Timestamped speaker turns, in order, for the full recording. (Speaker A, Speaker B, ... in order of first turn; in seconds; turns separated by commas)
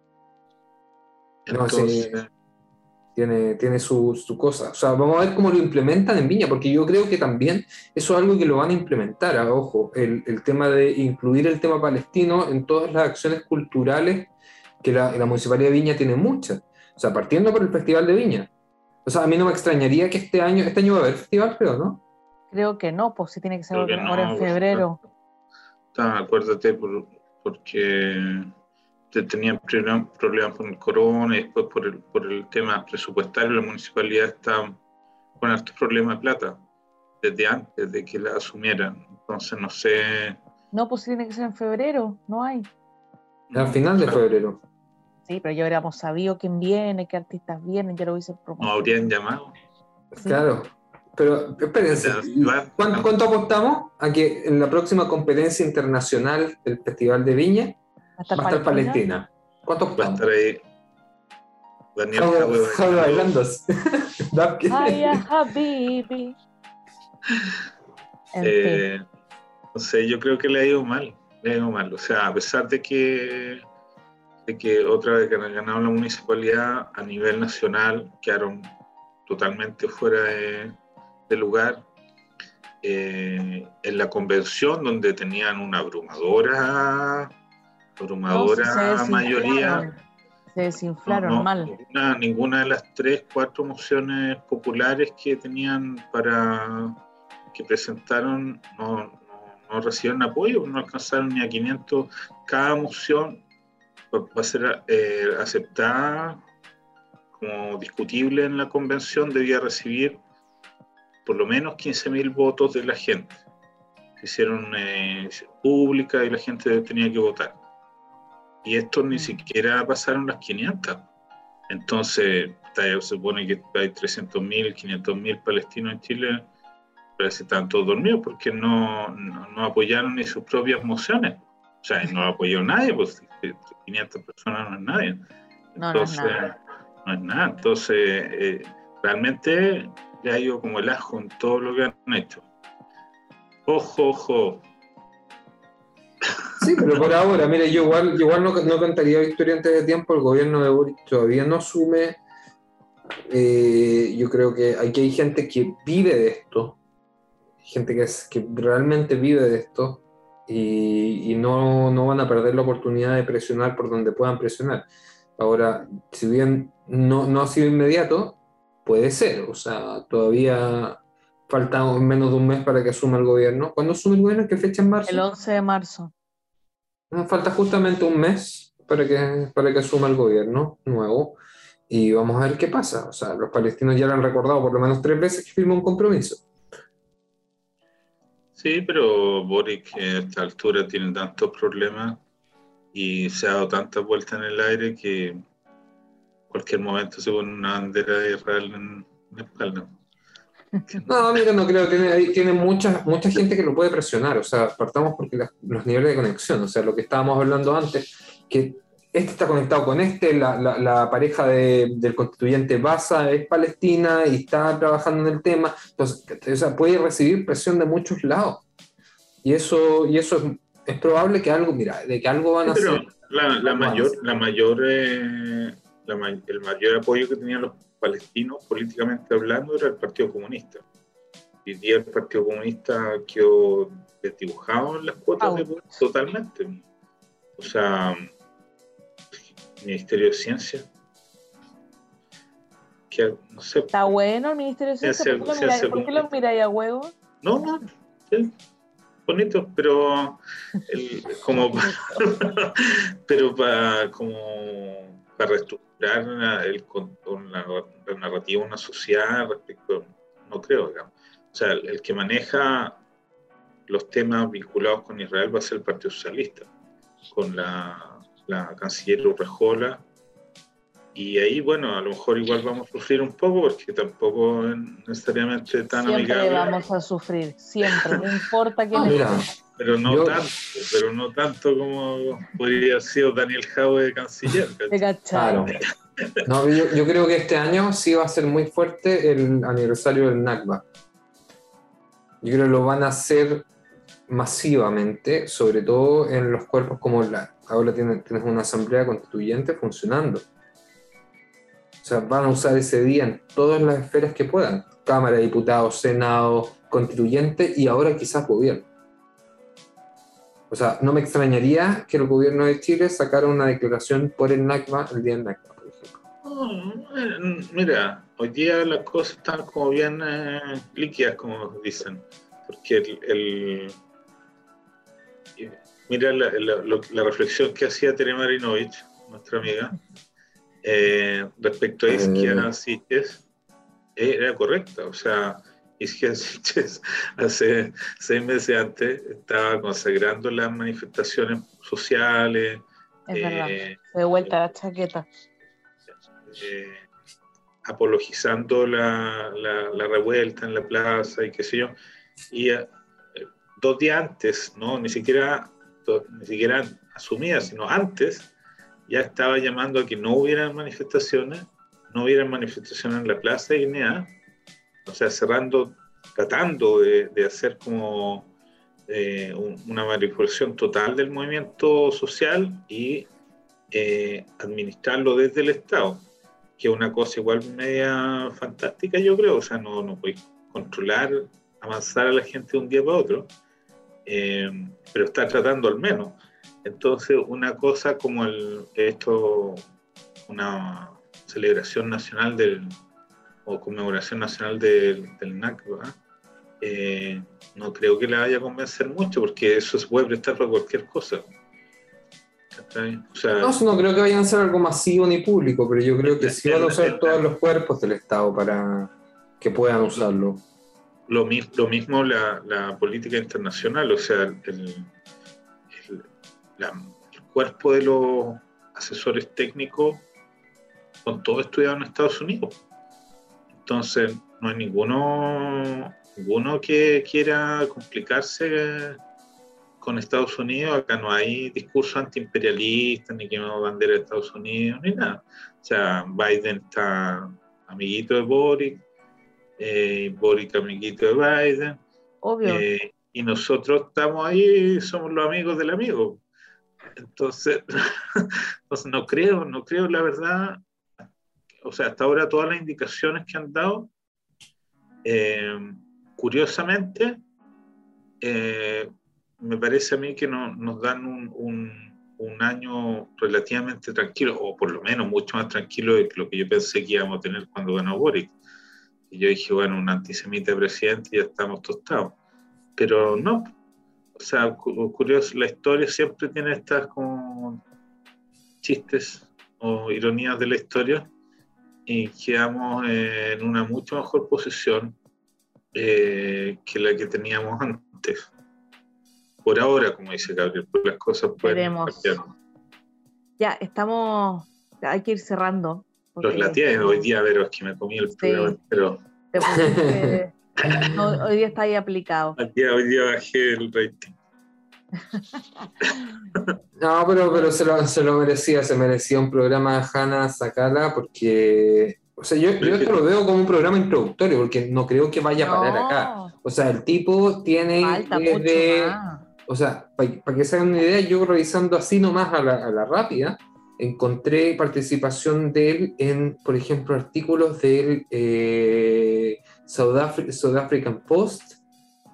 Speaker A: 1.5-2.3, Speaker B: 1.5-2.1, Speaker B: 3.1-14.3, Speaker B: 14.8-18.5, Speaker B: 19.0-22.0, Speaker C: 22.5-25.0, Speaker A: 23.7-24.9, Speaker A: 25.9-28.5, Speaker A: 29.1-34.8, Speaker A: 35.4-36.6, Speaker A: 37.2-40.4, Speaker C: 40.7-42.7, Speaker A: 43.5-44.2, Speaker B: 43.5-44.6, Speaker C: 45.3-48.9, Speaker A: 48.6-49.5, Speaker B: 50.1-57.8, Speaker A: 51.9-53.1, Speaker C: 58.2-59.0, Speaker B: 58.3-60.2, Speaker A: 60.0-60.6, Speaker A: 62.0-63.3, Speaker B: 62.1-65.2, Speaker C: 64.7-66.3, Speaker C: 68.3-68.8, Speaker A: 68.4-69.0, Speaker A: 69.7-73.6, Speaker A: 74.5-78.7, Speaker A: 79.3-80.8, Speaker A: 81.3-81.8, Speaker A: 82.8-87.3, Speaker A: 88.0-89.8, Speaker C: 88.3-89.9, Speaker C: 90.5-91.7, Speaker A: 91.1-97.0, Speaker A: 97.5-103.4, Speaker A: 104.1-106.4, Speaker A: 107.3-110.2, Speaker A: 111.2-113.4, Speaker A: 114.2-117.6, Speaker A: 118.6-121.1, Speaker A: 121.7-126.5, Speaker A: 127.2-135.2, Speaker C: 135.8-136.4, Speaker A: 135.8-136.5, Speaker A: 137.0-142.4, Speaker A: 143.7-144.6, Speaker B: 146.6-152.2, Speaker B: 153.3-156.8, Speaker B: 157.6-164.8, Speaker B: 165.4-175.2, Speaker C: 175.1-176.1, Speaker B: 177.1-181.4, Speaker B: 181.9-186.4, Speaker A: 188.6-192.2, Speaker A: 192.9-195.4, Speaker A: 196.5-200.0, Speaker A: 200.9-201.4, Speaker B: 201.1-218.6, Speaker B: 219.4-223.0, Speaker A: 222.6-230.8, Speaker B: 223.6-224.2, Speaker A: 231.6-236.8, Speaker C: 235.4-236.0, Speaker A: 237.6-238.3, Speaker A: 239.8-240.9, Speaker A: 243.1-243.9, Speaker C: 243.9-247.1, Speaker A: 245.0-246.3, Speaker A: 247.4-248.5, Speaker A: 249.3-263.0, Speaker C: 251.5-252.2, Speaker A: 263.9-266.7, Speaker A: 267.3-270.0, Speaker A: 271.1-276.7, Speaker C: 275.9-279.4, Speaker A: 277.8-278.2, Speaker B: 278.9-279.4, Speaker A: 279.1-285.0, Speaker B: 280.1-280.4, Speaker C: 284.9-285.7, Speaker B: 285.3-285.8, Speaker B: 286.4-290.8, Speaker B: 292.4-293.7, Speaker B: 294.3-300.4, Speaker B: 302.0-308.9, Speaker B: 310.7-316.2, Speaker A: 316.4-323.9, Speaker A: 325.6-329.9, Speaker A: 330.8-333.4, Speaker B: 332.1-332.7, Speaker A: 334.1-344.6, Speaker C: 343.3-345.3, Speaker A: 346.5-347.0, Speaker A: 347.8-351.9, Speaker A: 352.5-358.5, Speaker A: 359.1-364.3, Speaker A: 365.1-368.5, Speaker A: 369.1-373.3, Speaker A: 373.9-376.2, Speaker A: 376.8-383.5, Speaker A: 384.2-389.8, Speaker A: 390.5-393.0, Speaker A: 393.6-396.2, Speaker A: 396.8-401.5, Speaker A: 402.7-403.8, Speaker B: 403.6-410.6, Speaker A: 406.2-407.4, Speaker A: 411.3-415.1, Speaker A: 415.9-416.3, Speaker A: 416.8-420.2, Speaker A: 421.2-422.8, Speaker A: 423.7-429.2, Speaker A: 430.0-439.0, Speaker A: 439.8-442.0, Speaker C: 442.4-442.8, Speaker A: 442.6-446.4, Speaker A: 447.2-450.8, Speaker A: 451.8-454.1, Speaker A: 455.2-457.4, Speaker A: 458.4-468.5, Speaker A: 469.3-472.4, Speaker A: 472.9-473.7, Speaker A: 474.4-477.8, Speaker A: 478.8-481.3, Speaker A: 482.1-485.1, Speaker A: 485.9-488.5, Speaker A: 489.6-492.5, Speaker C: 491.6-492.4, Speaker C: 493.6-497.3, Speaker A: 496.4-499.2, Speaker C: 498.3-498.8, Speaker C: 499.5-502.6, Speaker B: 499.8-500.4, Speaker A: 502.6-504.4, Speaker C: 505.4-505.9, Speaker A: 506.0-506.7, Speaker B: 507.0-531.8, Speaker A: 512.8-513.1, Speaker C: 515.6-516.5, Speaker C: 518.0-519.4